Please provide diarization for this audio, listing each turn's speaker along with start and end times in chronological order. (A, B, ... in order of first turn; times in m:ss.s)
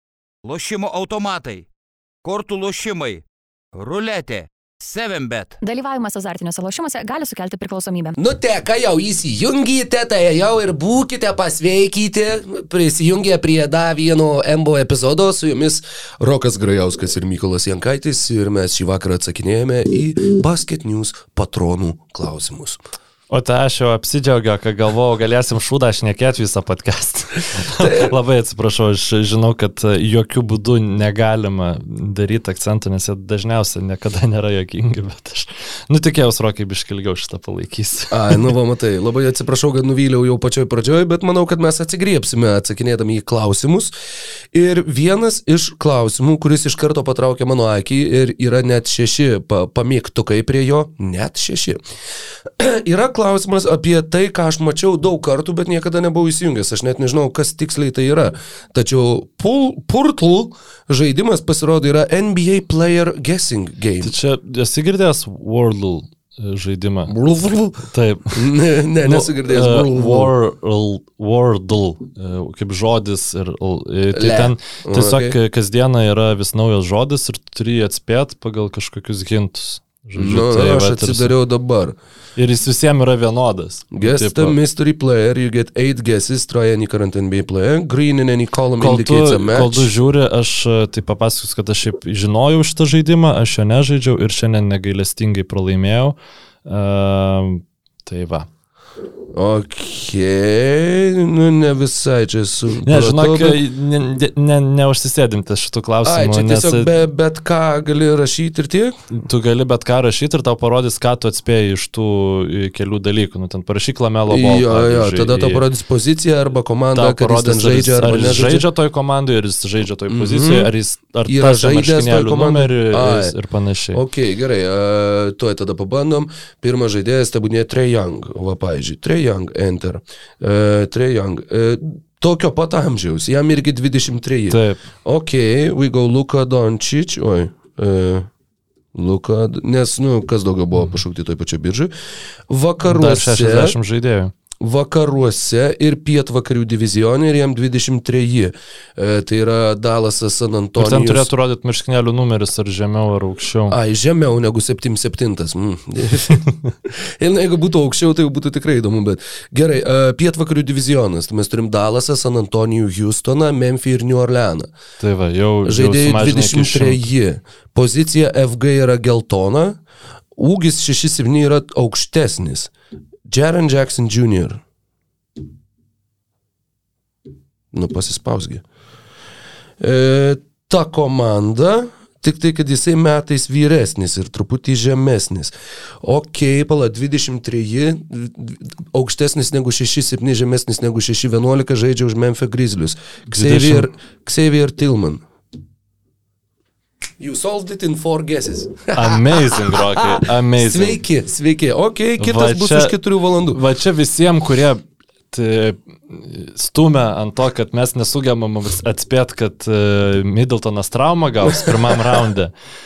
0:00.4-0:01.7 A
0:02.2-0:03.2 A
0:03.7-0:05.6 A
0:05.6-0:08.2 B
0:08.2-0:22.8 C
0:23.3-0:38.5 D
0:27.8-0:28.1 C
0:38.1-0:43.9 C
0:44.5-0:51.8 C
0:52.5-1:04.1 C
1:04.0-1:07.1 D
1:07.1-1:10.3 C
1:07.9-1:08.4 D
1:09.0-1:21.3 D
1:14.1-1:15.4 C
1:20.2-1:22.0 C
1:22.4-1:24.5 D
1:23.9-1:29.9 C
1:28.8-1:38.5 D
1:39.3-1:43.6 C
1:42.8-1:46.9 D
1:46.0-1:49.0 C
1:49.1-1:55.6 D
1:54.3-1:58.6 C
1:56.9-2:04.0 D
2:00.1-2:00.7 C
2:01.2-2:03.3 C
2:03.9-2:18.3 C
2:14.5-2:14.8 D
2:18.9-2:21.9 C
2:22.5-2:23.7 C
2:22.8-2:24.3 D
2:24.6-2:31.3 C
2:30.8-2:33.8 D
2:33.7-2:44.7 C
2:45.0-2:47.1 D
2:45.6-2:49.8 C
2:50.4-2:52.7 C
2:53.3-2:54.6 C
2:57.7-2:58.6 C
2:59.8-3:15.2 C
3:13.3-3:13.9 D
3:17.2-3:23.6 C
3:18.9-3:21.0 D
3:22.2-3:23.0 D
3:23.5-3:32.5 D